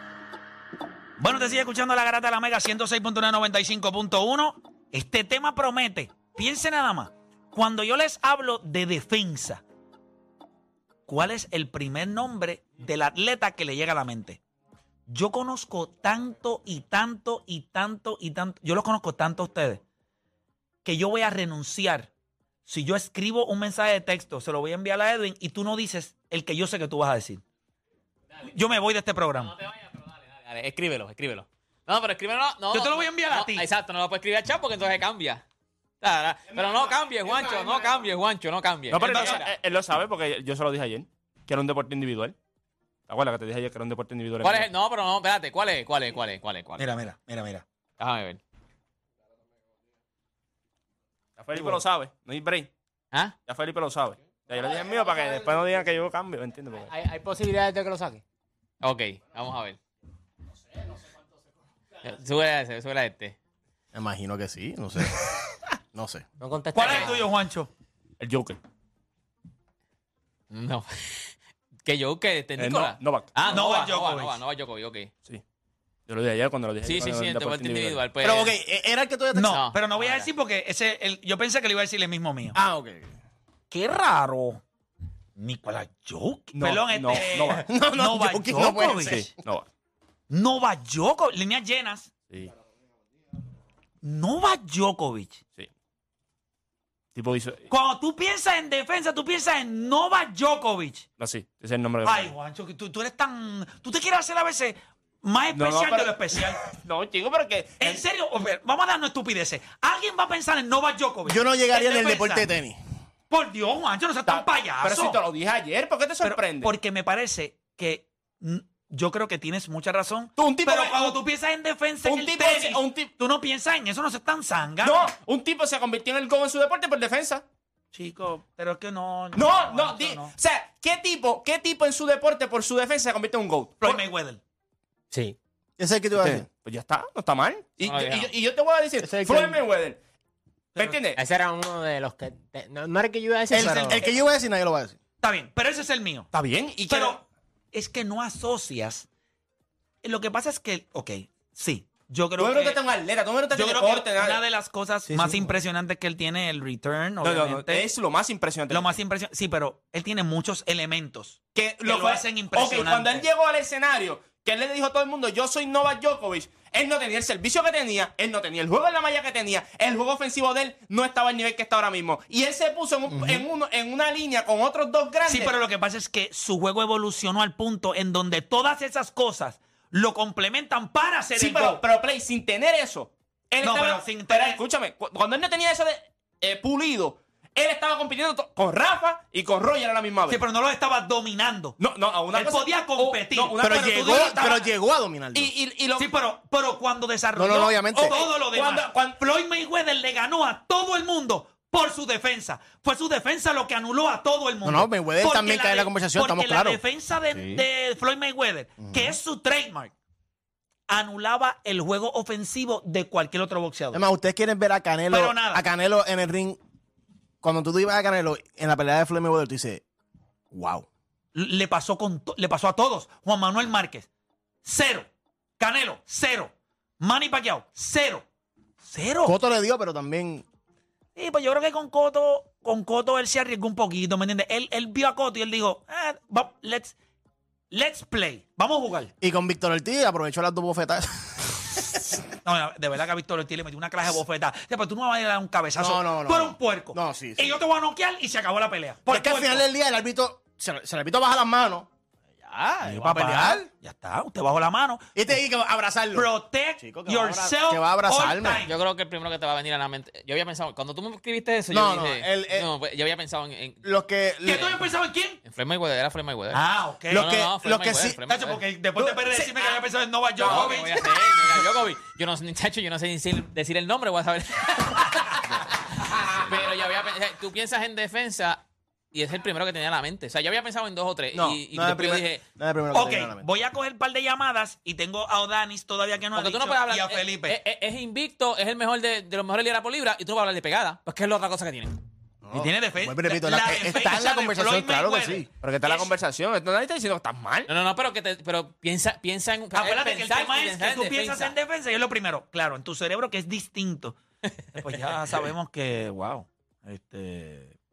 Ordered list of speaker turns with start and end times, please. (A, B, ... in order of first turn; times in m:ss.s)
0:01.2-0:09.6 A
0:11.1-0:14.4 A
0:15.1-0:19.8 A
0:20.8-0:22.1 A
0:22.7-0:27.4 A
0:28.5-0:29.5 A
0:29.4-0:35.4 B
0:32.7-0:33.7 A
0:36.0-0:39.5 B
0:36.6-0:38.0 C
0:38.9-0:42.4 D
0:39.0-0:39.4 A
0:43.1-0:44.7 D
0:44.4-0:46.8 B
0:46.8-0:47.6 A
0:48.0-0:48.4 B
0:51.4-0:52.7 D
0:51.5-0:51.8 A
0:53.5-0:56.9 D
0:56.9-0:58.2 E
0:58.8-0:59.8 B
1:02.0-1:03.4 B
1:03.9-1:05.2 C
1:05.9-1:06.2 C
1:06.4-1:07.2 E
1:06.7-1:07.7 A
1:08.2-1:08.6 D
1:10.5-1:11.3 B
1:11.8-1:15.1 B
1:12.6-1:13.3 D
1:13.4-1:14.4 A
1:16.1-1:18.0 D
1:16.8-1:18.6 B
1:18.2-1:19.6 C
1:19.4-1:22.6 A
1:19.4-1:20.3 B
1:22.5-1:23.1 C
1:23.7-1:24.6 A
1:25.4-1:29.3 A
1:26.5-1:27.7 D
1:27.6-1:29.2 C
1:29.0-1:29.7 D
1:30.3-1:32.1 A
1:34.0-1:35.4 A
1:37.2-1:37.7 D
1:37.7-1:41.1 A
1:41.2-1:42.3 D
1:42.0-1:46.6 A
1:45.5-1:48.0 D
1:47.8-1:52.4 A
1:51.3-1:52.8 C
1:53.3-1:55.2 A
1:54.3-1:56.7 D
1:56.2-2:05.1 A
2:00.4-2:01.2 D
2:02.0-2:03.1 D
2:04.8-2:07.4 D
2:07.9-2:10.3 A
2:09.3-2:13.9 D
2:13.8-2:14.4 A
2:15.1-2:15.4 E
2:15.8-2:16.5 C
2:16.2-2:20.0 D
2:17.8-2:18.3 B
2:19.0-2:19.6 C
2:20.8-2:21.2 D
2:21.2-2:24.0 E
2:23.5-2:25.0 C
2:25.2-2:26.3 A
2:26.3-2:27.2 D
2:26.9-2:29.1 A
2:30.0-2:32.8 A
2:32.4-2:34.4 D
2:33.5-2:37.9 A
2:35.1-2:35.5 C
2:37.2-2:39.0 D
2:38.7-2:43.3 A
2:41.6-2:55.5 D
2:53.2-2:53.4 C
2:55.3-3:01.8 A
3:01.4-3:10.4 D
3:03.6-3:04.6 A
3:10.3-3:11.8 A
3:11.8-3:14.5 D
3:12.3-3:14.7 A
3:13.6-3:15.5 C
3:15.3-3:16.1 D
3:16.0-3:29.9 A
3:17.4-3:18.1 C
3:17.9-3:19.2 D
3:24.6-3:26.8 C
3:27.3-3:27.6 C
3:28.8-3:29.2 C
3:30.9-3:34.0 A
3:33.9-3:36.6 C
3:35.1-3:35.6 A
3:37.4-3:39.8 C
3:40.5-3:40.9 C
3:41.4-3:44.1 A
3:44.6-3:45.1 A
3:45.6-3:48.3 A
3:48.8-3:49.4 A
3:49.3-3:50.4 C
3:51.2-3:57.0 A
3:57.7-3:59.1 A
3:59.2-4:02.2 C
4:02.4-4:09.7 A
4:05.8-4:07.6 C
4:09.1-4:11.9 C
4:12.4-4:13.7 C
4:12.8-4:15.2 A
4:15.2-4:18.6 C
4:16.1-4:18.8 A
4:18.7-4:23.8 B
4:21.7-4:22.7 C
4:23.8-4:24.8 C
4:24.4-4:25.4 A
4:25.4-4:28.6 B
4:26.5-4:27.3 A
4:27.1-4:28.2 C
4:28.3-4:31.3 A
4:30.4-4:30.8 D
4:30.4-4:38.6 B
4:39.1-4:42.4 B
4:41.3-4:43.4 C
4:42.9-4:47.6 A
4:46.4-4:52.0 B
4:52.4-4:55.5 C
4:52.5-4:56.1 A
4:55.6-4:57.7 D
4:57.7-5:01.5 B
4:59.7-5:04.2 A
5:04.8-5:07.8 A